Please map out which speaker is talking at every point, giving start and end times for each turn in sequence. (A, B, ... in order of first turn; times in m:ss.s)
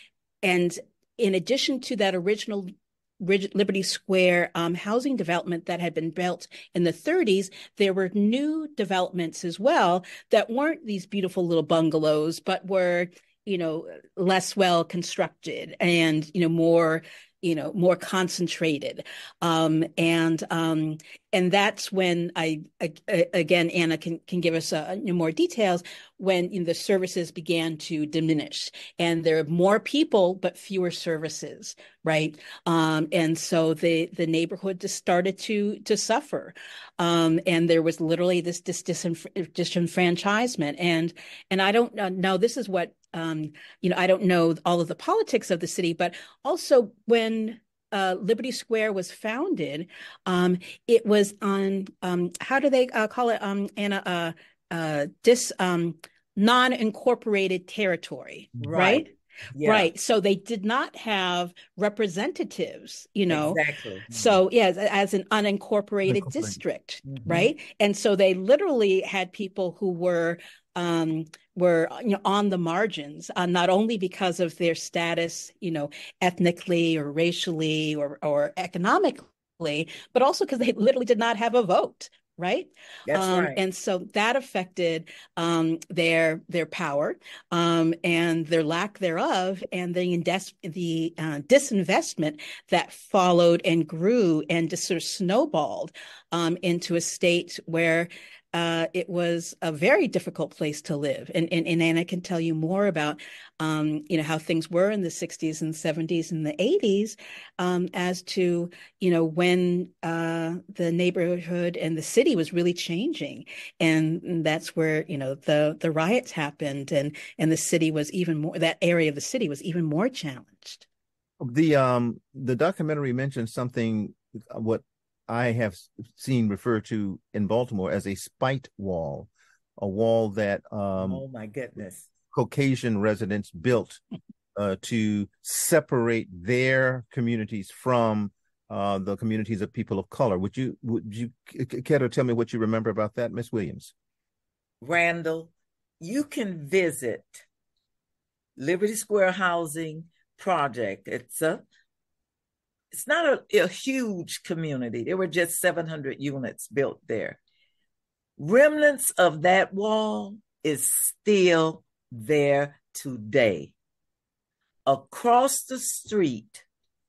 0:00.4-0:59.1 A
0:58.6-0:59.9 B
0:59.6-2:00.8 A
1:03.3-1:04.1 B
1:06.1-1:06.6 C
1:07.1-1:07.5 B
1:23.1-1:23.6 B
2:01.4-2:11.2 C
2:11.0-2:12.1 B
2:12.3-2:14.0 C
2:14.6-2:23.9 C
2:24.8-2:27.4 B
2:28.6-2:31.6 B
2:32.9-2:37.4 B
2:38.4-2:43.7 B
2:44.9-2:46.6 B